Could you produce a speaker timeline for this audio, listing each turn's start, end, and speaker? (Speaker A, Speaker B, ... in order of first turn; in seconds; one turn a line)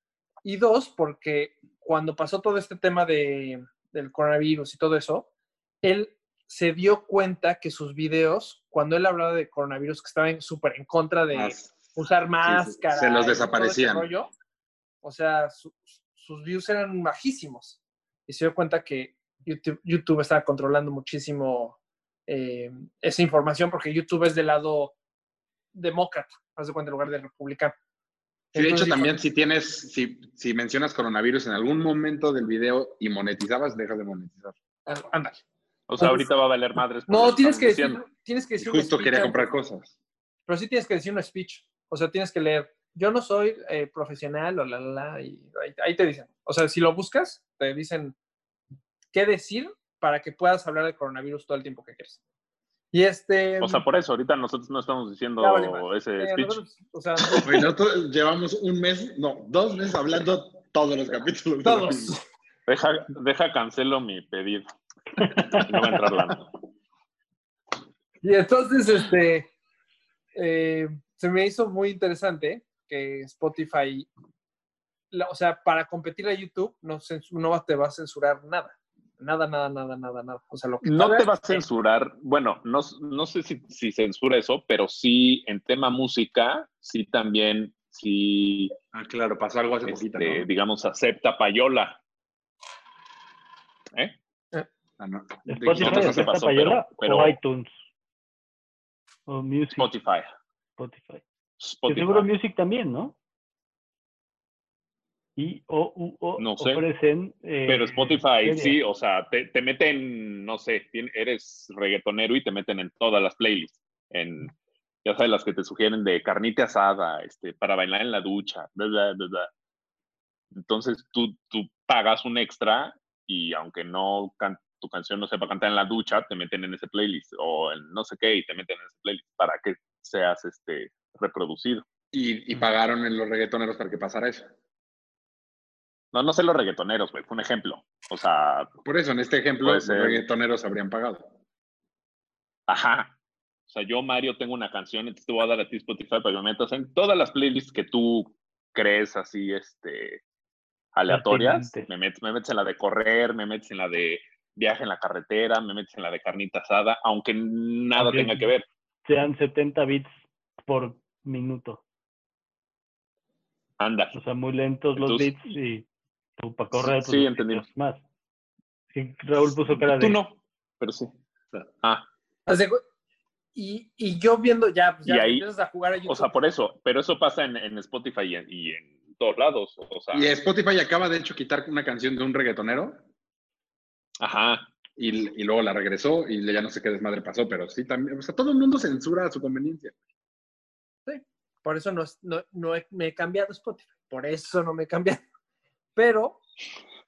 Speaker A: 0.4-5.3
Speaker A: 5.8-14.3
Speaker B: 11.3-14.1
Speaker A: 15.0-25.0
Speaker A: 25.7-27.8
Speaker B: 28.5-34.5
Speaker A: 28.6-29.2
Speaker A: 34.9-35.4
Speaker C: 35.9-38.0
Speaker A: 36.0-36.3
Speaker A: 37.1-39.5
Speaker B: 38.6-39.9
Speaker A: 40.5-48.1
Speaker A: 49.1-52.2
Speaker A: 52.9-53.8
Speaker C: 53.6-56.6
Speaker A: 55.4-57.6
Speaker B: 57.4-62.2
Speaker A: 61.6-62.2
Speaker C: 62.7-64.7
Speaker C: 65.2-66.5
Speaker A: 68.2-69.5
Speaker A: 70.3-74.1
Speaker A: 75.1-81.7
Speaker C: 80.8-88.7
Speaker B: 88.9-90.5
Speaker C: 89.9-92.0
Speaker B: 95.0-96.3
Speaker D: 95.5-97.7
Speaker C: 95.7-97.4
Speaker D: 99.3-99.9
Speaker C: 99.8-100.3
Speaker D: 100.8-101.2
Speaker C: 101.6-102.3
Speaker D: 101.9-103.2
Speaker D: 105.4-108.8
Speaker C: 106.4-106.8
Speaker C: 107.7-114.5
Speaker C: 115.0-119.5
Speaker C: 120.5-131.9
Speaker B: 132.1-134.5
Speaker C: 136.1-138.7
Speaker B: 138.8-141.3
Speaker C: 139.6-140.2
Speaker C: 142.7-143.2
Speaker C: 143.7-150.2
Speaker C: 150.9-158.7
Speaker D: 151.1-151.9
Speaker D: 157.9-158.5
Speaker D: 159.1-160.1
Speaker D: 160.7-161.8
Speaker C: 163.8-164.2
Speaker D: 164.2-165.9
Speaker C: 165.0-165.5
Speaker D: 166.4-168.0
Speaker C: 166.7-167.7
Speaker D: 168.9-170.2
Speaker C: 169.4-172.1
Speaker A: 172.5-172.8
Speaker A: 173.6-176.3
Speaker C: 175.1-175.4
Speaker C: 176.1-180.3
Speaker B: 180.1-183.0
Speaker C: 184.2-184.7
Speaker B: 185.0-189.9
Speaker A: 191.1-195.2
Speaker A: 196.0-196.4